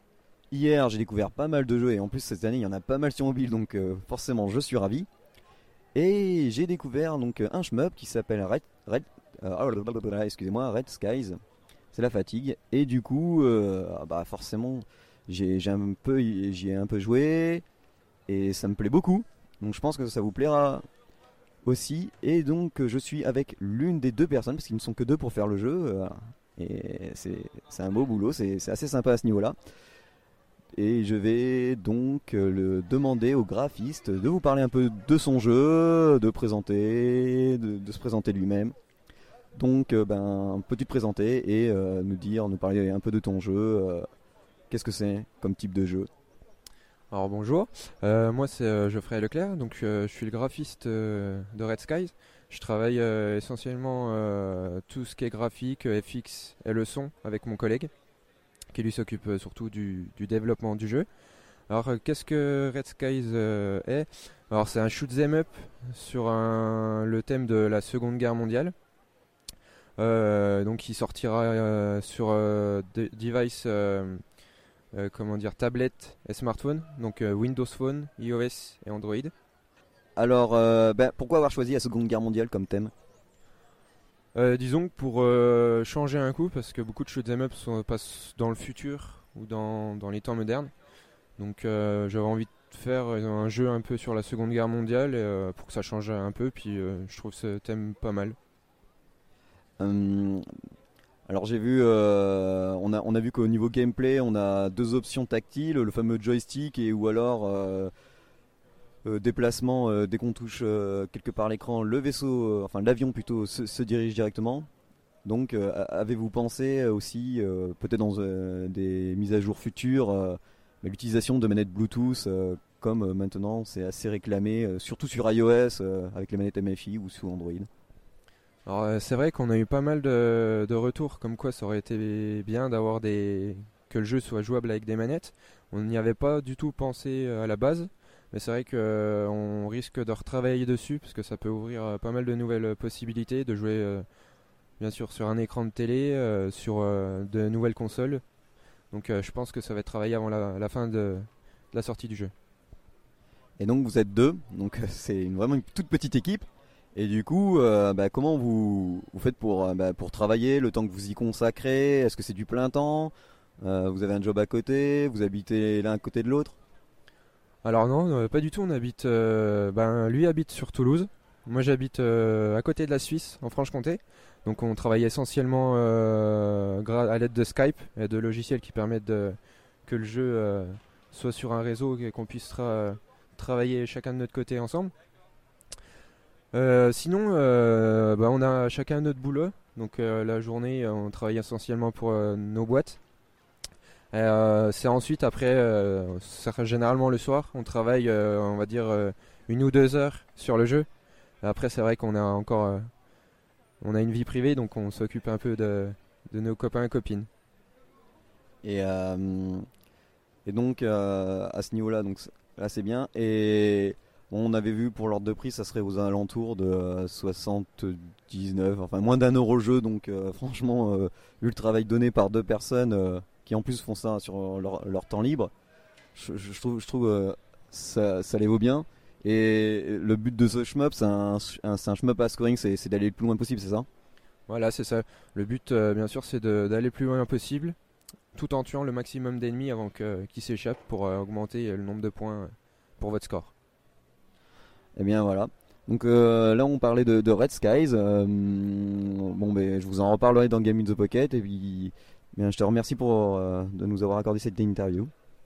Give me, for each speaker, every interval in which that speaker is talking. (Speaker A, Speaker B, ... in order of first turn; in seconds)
Speaker A: 0.5-5.1, 5.9-11.3, 11.9-17.6, 18.3-20.9, 21.6-29.5, 30.7-38.7, 39.5-44.1, 44.7-46.1, 80.2-82.9, 99.8-100.4, 101.3-107.9, 109.0-114.7, 115.2-127.7, 153.6-166.6, 208.6-209.7, 210.4-225.5, 226.1-233.9, 245.0-255.1
Speaker B: 47.1-57.9, 58.7-61.1, 61.7-68.7, 70.0-74.2, 74.9-79.3, 84.3-90.7, 91.4-98.4, 128.7-144.1, 144.8-148.2, 148.9-152.3, 167.6-184.9, 186.5-193.0, 194.1-200.9, 201.4-202.9, 203.8-207.3, 234.5-237.8, 238.3-243.5